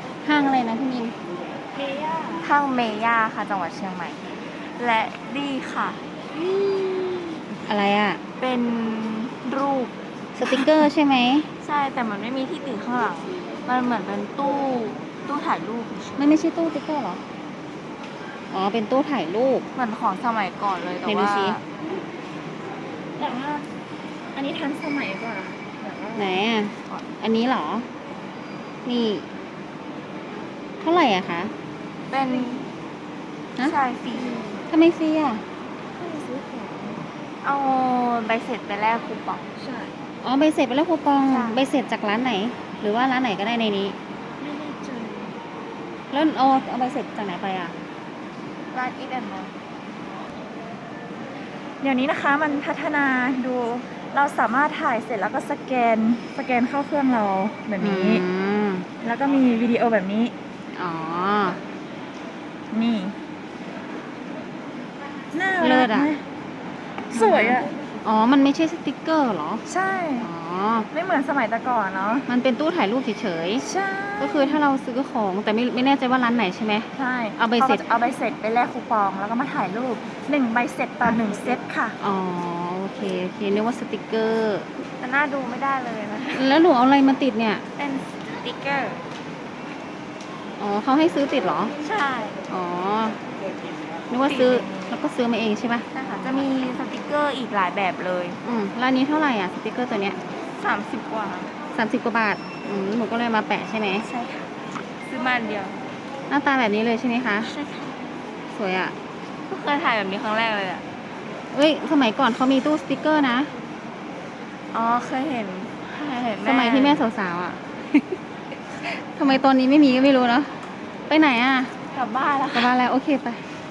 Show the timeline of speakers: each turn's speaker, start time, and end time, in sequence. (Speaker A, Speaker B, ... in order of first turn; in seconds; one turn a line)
Speaker A: 0.2-1.1
Speaker B: 1.9-2.3
Speaker C: 2.3-6.0
Speaker A: 7.7-8.2
Speaker C: 8.4-10.8
Speaker A: 10.4-11.5
Speaker C: 11.5-16.2
Speaker A: 16.2-17.2
Speaker A: 18.5-19.7
Speaker C: 19.7-21.6
Speaker A: 21.0-21.6
Speaker B: 23.1-23.7
Speaker B: 24.3-26.4
Speaker A: 26.1-27.9
Speaker A: 28.8-29.3
Speaker A: 30.8-31.5
Speaker C: 32.1-32.7
Speaker C: 33.6-34.3
Speaker B: 34.1-34.6
Speaker A: 34.7-35.4
Speaker B: 35.9-37.0
Speaker C: 37.4-39.4
Speaker B: 39.6-39.9
Speaker A: 40.2-44.0
Speaker C: 41.3-41.6
Speaker B: 44.4-45.4
Speaker A: 46.1-47.7
Speaker C: 48.7-49.5
Speaker B: 51.8-58.2
Speaker A: 57.8-58.9
Speaker B: 59.0-60.3
Speaker A: 60.7-61.6
Speaker B: 62.7-63.1
Speaker B: 65.3-66.2
Speaker A: 65.6-66.1
Speaker B: 67.1-67.7
Speaker A: 67.1-69.6
Speaker B: 69.7-70.3
Speaker A: 70.2-70.9
Speaker B: 70.9-72.3
Speaker A: 72.3-73.6
Speaker B: 73.6-74.6
Speaker A: 74.2-77.8
Speaker B: 76.9-82.0
Speaker A: 82.0-84.7
Speaker C: 84.8-86.5
Speaker A: 86.3-87.6
Speaker C: 87.8-89.0
Speaker A: 90.6-91.7
Speaker C: 91.8-92.4
Speaker A: 92.5-93.2
Speaker A: 94.1-96.5
Speaker C: 94.2-94.9
Speaker C: 95.9-98.4
Speaker A: 98.4-100.2
Speaker C: 100.5-101.5
Speaker A: 101.7-104.0
Speaker C: 104.0-105.8
Speaker A: 106.3-107.5
Speaker C: 107.4-108.0
Speaker A: 108.5-109.0
Speaker C: 109.5-110.8
Speaker A: 111.5-113.5
Speaker C: 114.7-117.0
Speaker A: 116.4-118.2
Speaker A: 118.8-120.5
Speaker A: 121.1-121.7
Speaker C: 121.9-122.7
Speaker A: 122.5-123.4